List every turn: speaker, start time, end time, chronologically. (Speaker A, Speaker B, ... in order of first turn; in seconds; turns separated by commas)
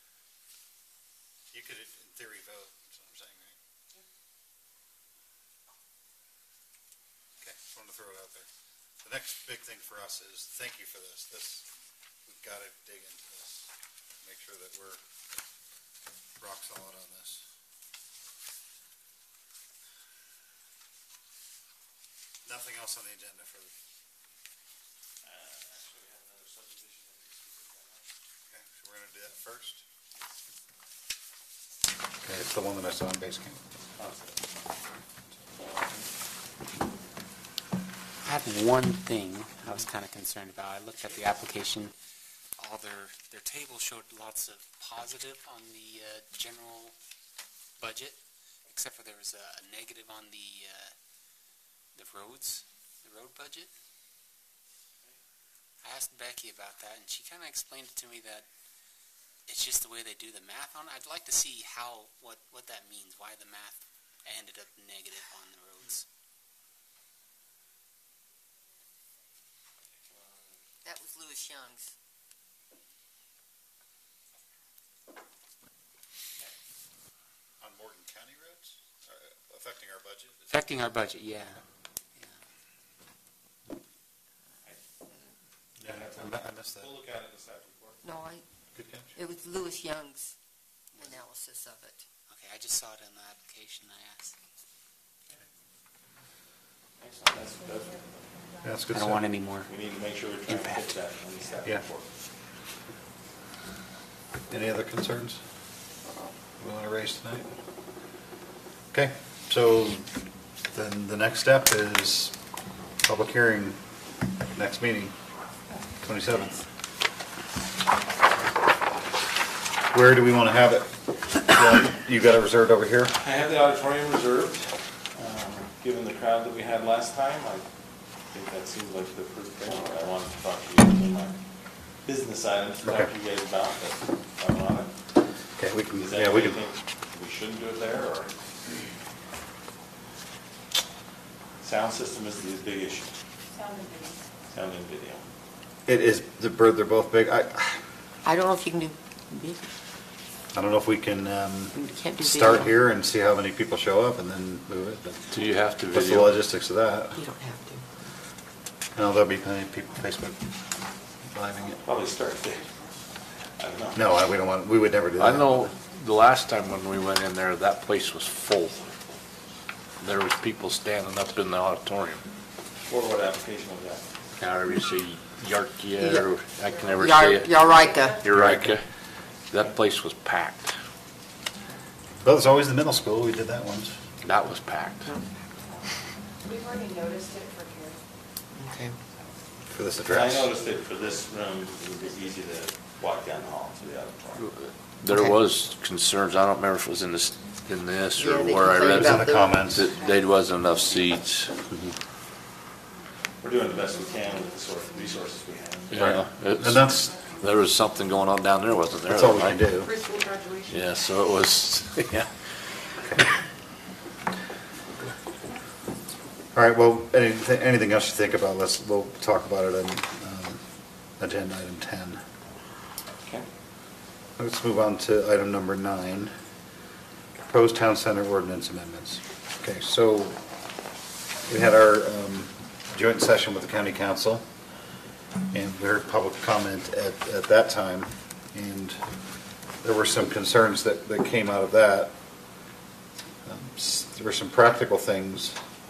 Speaker A: 1.5-3.6, Speaker A: 7.4-8.5, Speaker A: 9.0-11.7, Speaker A: 12.3-15.0, Speaker A: 16.4-17.5, Speaker A: 22.4-23.7, Speaker B: 25.2-28.1, Speaker A: 28.5-29.9, Speaker A: 32.2-33.6, Speaker B: 34.0-34.4, Speaker C: 38.2-41.9, Speaker C: 42.6-47.0, Speaker C: 47.8-50.9, Speaker C: 52.0-53.7, Speaker C: 55.8-58.5, Speaker C: 59.5-66.1, Speaker B: 69.9-70.6, Speaker D: 70.8-71.9, Speaker A: 77.6-80.7, Speaker C: 80.5-81.6, Speaker A: 85.8-86.9, Speaker B: 85.8-88.0, Speaker D: 88.0-88.4, Speaker A: 88.8-89.1, Speaker D: 89.2-90.3, Speaker D: 91.0-92.0, Speaker C: 92.3-94.4, Speaker B: 97.0-98.5, Speaker A: 98.6-99.3, Speaker C: 98.9-99.7, Speaker B: 99.7-102.1, Speaker C: 100.5-100.8, Speaker A: 104.5-105.4, Speaker A: 106.6-107.5, Speaker A: 108.9-110.1, Speaker A: 110.7-112.3, Speaker A: 113.0-113.8, Speaker A: 114.5-115.2, Speaker A: 116.0-116.6, Speaker A: 119.9-123.2, Speaker B: 123.1-127.7, Speaker B: 128.3-131.3, Speaker B: 132.1-134.9, Speaker A: 132.8-133.1, Speaker A: 135.6-136.6, Speaker B: 136.0-138.4, Speaker B: 141.6-143.1, Speaker E: 143.6-144.2, Speaker B: 144.5-145.2, Speaker A: 145.9-147.8, Speaker D: 148.2-149.7, Speaker A: 150.5-155.2, Speaker D: 151.7-152.7, Speaker F: 155.3-156.4, Speaker A: 155.9-157.2, Speaker D: 157.2-157.8, Speaker A: 158.9-160.5, Speaker A: 161.2-161.8, Speaker B: 161.8-162.7, Speaker B: 163.6-164.0, Speaker A: 163.9-165.8, Speaker F: 165.2-168.9, Speaker F: 170.0-172.2, Speaker B: 172.9-174.1, Speaker F: 174.4-177.7, Speaker D: 176.0-176.3, Speaker D: 177.0-178.2, Speaker E: 177.8-178.4, Speaker F: 178.2-178.8, Speaker A: 178.3-178.7, Speaker F: 179.5-180.7, Speaker A: 182.2-184.0, Speaker F: 184.2-185.1, Speaker E: 186.4-188.0, Speaker D: 188.6-188.9, Speaker A: 189.7-190.5, Speaker B: 190.1-194.4, Speaker F: 194.4-201.6, Speaker D: 198.2-199.8, Speaker A: 198.9-199.9, Speaker B: 203.4-206.0, Speaker F: 205.9-209.7, Speaker A: 206.0-207.2, Speaker E: 206.8-207.8, Speaker A: 209.1-210.0, Speaker E: 209.9-210.9, Speaker F: 210.7-212.3, Speaker A: 216.6-220.6, Speaker A: 221.2-222.2, Speaker A: 224.4-226.3, Speaker A: 227.5-230.4, Speaker A: 231.4-234.4, Speaker A: 235.5-239.0, Speaker A: 239.8-242.1, Speaker A: 243.5-245.6